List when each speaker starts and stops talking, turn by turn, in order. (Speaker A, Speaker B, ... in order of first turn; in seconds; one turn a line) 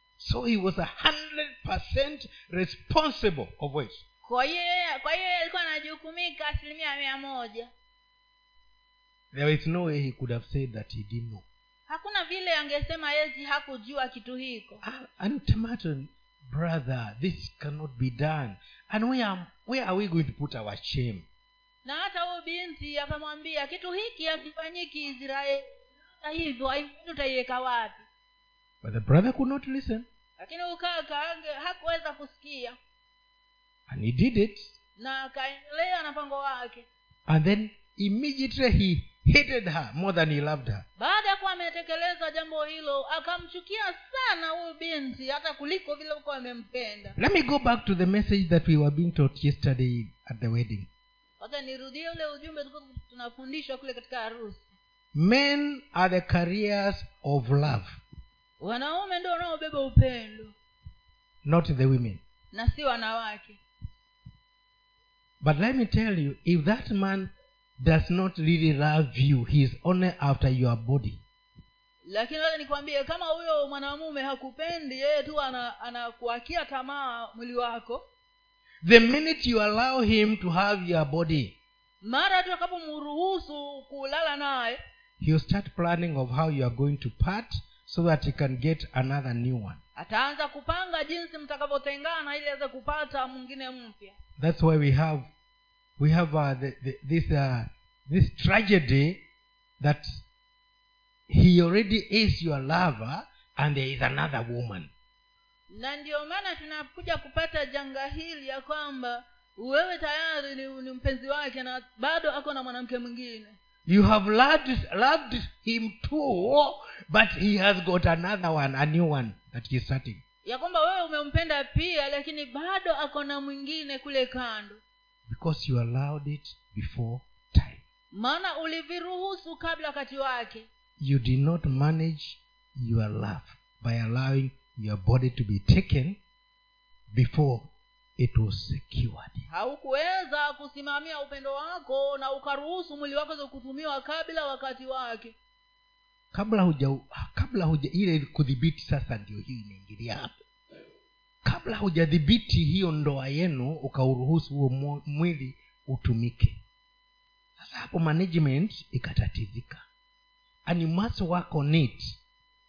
Speaker A: 0.2-4.0
Speaker B: 4.2-7.7
Speaker A: 9.3-11.4
Speaker B: 11.9-14.8
Speaker A: 14.8-21.3
Speaker B: 21.9-25.6
Speaker B: 26.2-28.1
Speaker A: 28.8-30.1
Speaker B: 30.4-32.8
Speaker A: 33.9-34.8
Speaker B: 35.0-36.9
Speaker A: 37.3-40.9
Speaker B: 41.0-47.2
Speaker A: 47.2-50.9
Speaker B: 51.4-54.8
Speaker A: 55.1-58.0
Speaker B: 58.6-60.5
Speaker A: 61.4-62.2
Speaker B: 62.5-63.6
Speaker A: 65.4-71.2
Speaker B: 72.1-78.0
Speaker A: 78.8-81.6
Speaker B: 82.0-84.8
Speaker A: 85.2-89.8
Speaker B: 90.0-94.2
Speaker A: 94.4-95.3
Speaker A: 96.0-99.2
Speaker A: 99.8-100.2
Speaker A: 101.3-104.9
Speaker B: 105.7-113.6
Speaker A: 113.9-120.2
Speaker B: 120.5-124.8
Speaker A: 125.3-127.8
Speaker B: 128.1-130.7
Speaker A: 131.0-136.2
Speaker A: 137.1-139.5
Speaker B: 139.5-145.3
Speaker A: 146.3-150.4
Speaker A: 151.4-156.6
Speaker A: 157.6-159.8
Speaker A: 160.7-162.2